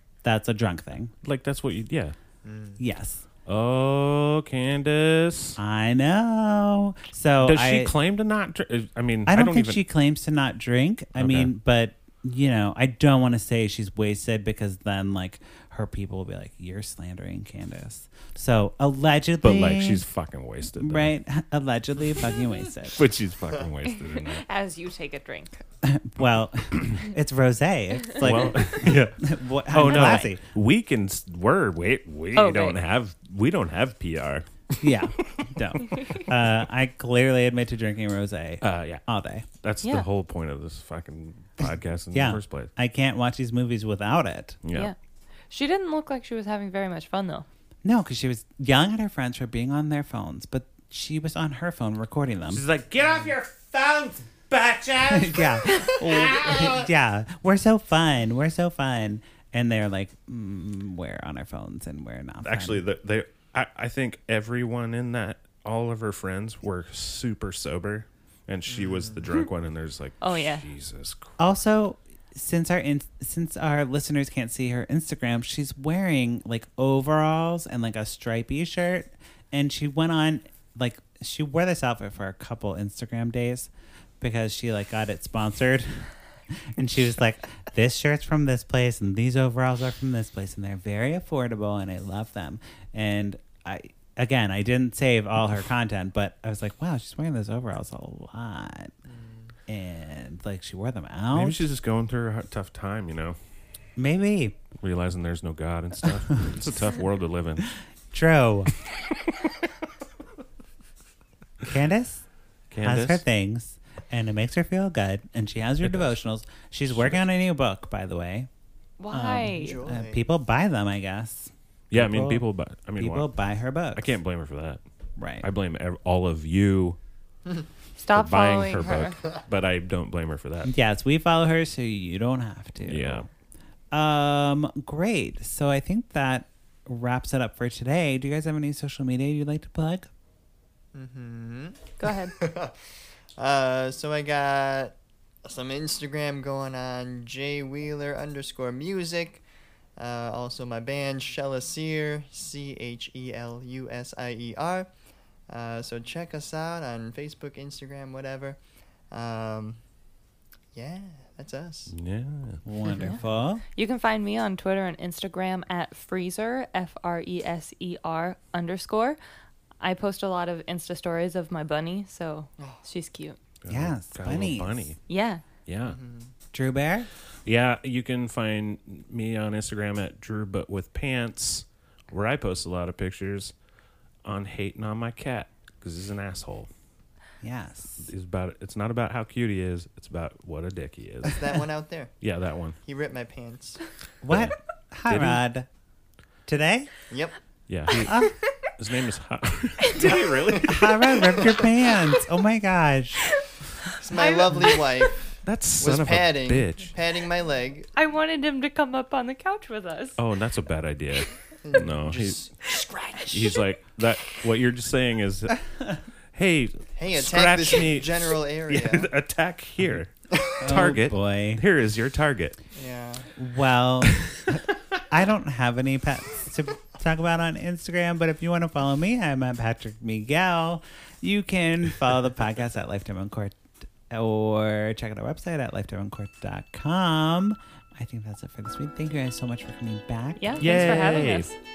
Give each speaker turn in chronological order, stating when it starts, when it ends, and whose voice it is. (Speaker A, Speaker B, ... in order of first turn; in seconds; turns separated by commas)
Speaker A: 0.2-1.1, Speaker B: 1.2-2.1, Speaker C: 2.4-2.8, Speaker A: 2.8-3.2, Speaker B: 3.5-5.6, Speaker A: 5.6-7.9, Speaker B: 7.4-9.8, Speaker A: 9.3-20.0, Speaker B: 11.1-11.5, Speaker B: 19.4-21.1, Speaker A: 20.8-23.0, Speaker B: 22.9-24.4, Speaker D: 23.9-25.6, Speaker A: 25.8-30.4, Speaker B: 26.7-27.0, Speaker B: 28.1-36.3, Speaker D: 32.3-32.8, Speaker A: 34.8-39.5, Speaker B: 38.6-39.0, Speaker B: 39.6-42.7, Speaker A: 42.1-44.6, Speaker B: 44.6-44.9, Speaker D: 45.5-47.5, Speaker A: 47.8-52.6, Speaker B: 52.5-56.9, Speaker A: 55.1-62.8, Speaker B: 62.4-71.4, Speaker C: 68.7-69.2, Speaker D: 70.2-70.6, Speaker A: 71.4-86.1, Speaker A: 86.7-98.9, Speaker C: 99.1-99.5, Speaker A: 99.7-101.6, Speaker B: 101.3-103.3, Speaker A: 104.0-104.5, Speaker B: 104.8-107.7, Speaker A: 108.1-108.7, Speaker A: 111.6-112.2, Speaker B: 112.7-113.2, Speaker A: 112.8-118.5, Speaker B: 115.8-116.2, Speaker B: 116.9-117.2, Speaker D: 119.0-119.8, Speaker A: 119.1-122.4, Speaker C: 119.5-120.2, Speaker B: 121.9-123.3, Speaker A: 123.0-124.1, Speaker B: 123.9-124.8, Speaker A: 125.2-125.5, Speaker B: 125.4-127.0, Speaker D: 128.0-129.2, Speaker B: 128.1-130.7, Speaker A: 130.6-133.2, Speaker B: 132.8-133.3, Speaker A: 133.9-140.1, Speaker C: 140.9-142.8, Speaker D: 142.0-142.3, Speaker C: 143.4-149.4, Speaker C: 150.0-154.9, Speaker C: 155.5-158.6, Speaker C: 159.1-159.8, Speaker C: 160.7-161.9, Speaker B: 161.9-162.6, Speaker A: 162.6-163.6, Speaker D: 162.9-163.2, Speaker D: 163.7-169.2, Speaker D: 169.8-173.4, Speaker B: 173.6-175.0, Speaker A: 173.7-174.9, Speaker D: 175.1-175.4, Speaker B: 175.7-176.0, Speaker C: 175.8-176.3, Speaker A: 176.5-177.1, Speaker B: 177.4-183.5, Speaker B: 184.2-186.7, Speaker A: 187.4-188.1, Speaker B: 188.0-191.4, Speaker C: 191.2-192.1, Speaker B: 192.2-192.8, Speaker C: 192.8-193.8, Speaker A: 194.2-195.7, Speaker B: 194.3-194.6, Speaker B: 195.1-195.4, Speaker A: 196.5-196.9, Speaker C: 197.1-197.3, Speaker B: 197.7-200.9, Speaker A: 197.9-198.3, Speaker C: 200.0-201.6, Speaker A: 200.6-203.3, Speaker C: 204.0-207.9, Speaker D: 204.1-204.9, Speaker B: 205.4-206.9, Speaker D: 207.9-210.2, Speaker B: 210.2-212.4, Speaker C: 211.6-212.9, Speaker D: 212.9-213.3, Speaker B: 213.3-215.6, Speaker B: 216.3-222.6, Speaker C: 216.9-219.1, Speaker C: 220.3-220.6, Speaker A: 220.6-221.6, Speaker C: 222.7-223.3, Speaker A: 223.4-241.1, Speaker B: 224.1-224.4, Speaker D: 240.4-241.5, Speaker B: 240.6-241.5